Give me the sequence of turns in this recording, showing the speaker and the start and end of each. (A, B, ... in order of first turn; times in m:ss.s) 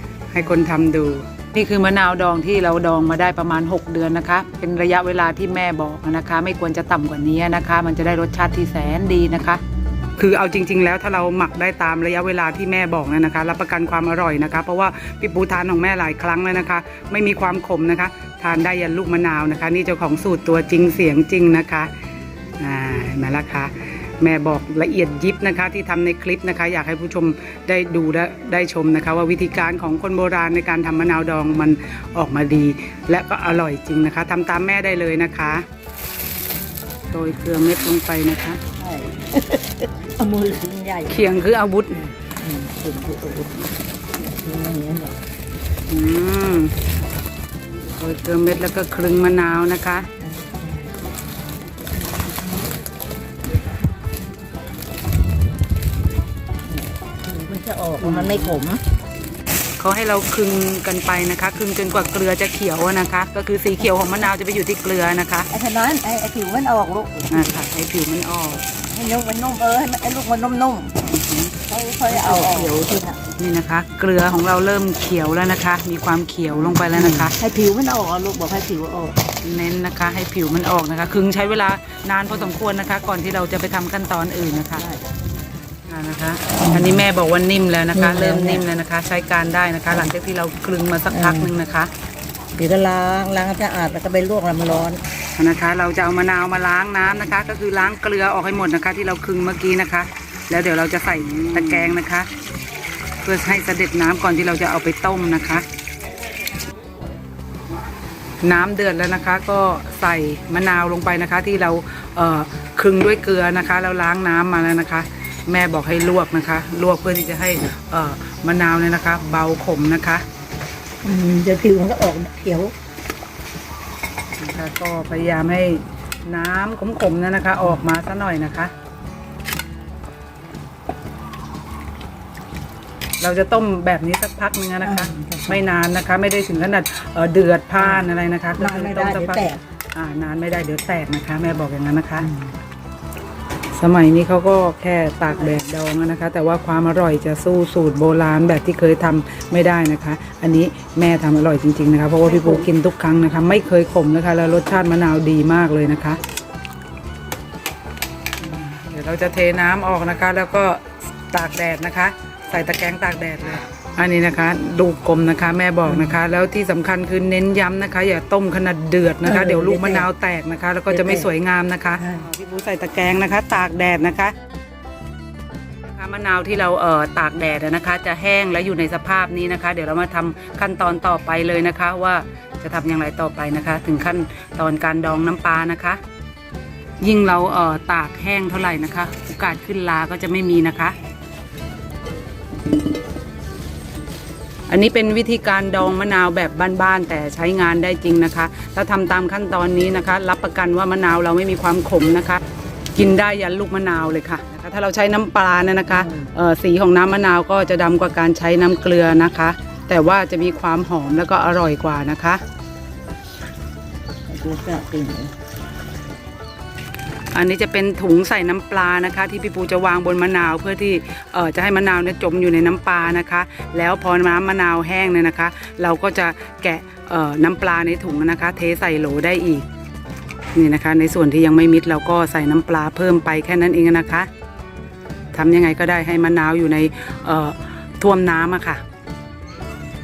0:00.3-0:09.6 A
0:10.2-0:21.9 A
0:22.6-0:35.6 A
0:37.1-0:38.6 A
0:38.8-0:41.2 B
0:41.1-0:42.0 A
0:41.9-0:45.2 B
0:45.9-0:46.7 A
0:48.0-0:50.1 A
0:50.2-0:50.9 B
0:56.7-0:58.8 B
0:58.0-0:58.6 A
0:59.8-1:05.5 A
1:05.5-1:07.6 B
1:07.3-1:08.6 A
1:08.9-1:11.0 B
1:11.0-1:11.6 A
1:11.7-1:13.2 B
1:12.1-1:17.4 A
1:16.8-1:19.2 B
1:19.4-1:24.9 A
1:24.8-1:25.0 B
1:25.9-1:31.9 A
1:26.6-1:27.0 B
1:27.9-1:28.7 B
1:31.1-1:31.5 B
1:32.6-1:35.0 B
1:35.4-1:42.3 A
1:43.2-1:45.7 A
1:48.4-2:00.2 A
2:01.0-2:02.7 B
2:04.4-2:08.7 A
2:13.2-2:22.3 A
2:14.8-2:15.6 B
2:17.8-2:18.1 B
2:18.6-2:19.6 B
2:23.8-2:36.2 A
2:32.3-2:32.6 B
2:38.4-2:54.3 A
2:45.9-2:46.2 B
2:49.2-2:50.1 B
2:50.9-2:51.3 B
2:52.0-2:52.3 B
2:55.9-3:06.0 A
3:07.0-3:11.0 A
3:14.7-3:22.4 A
3:23.0-3:32.4 A
3:25.9-3:26.3 B
3:34.3-3:35.3 B
3:37.3-3:49.7 A
3:50.5-3:54.3 A
3:55.3-3:58.8 A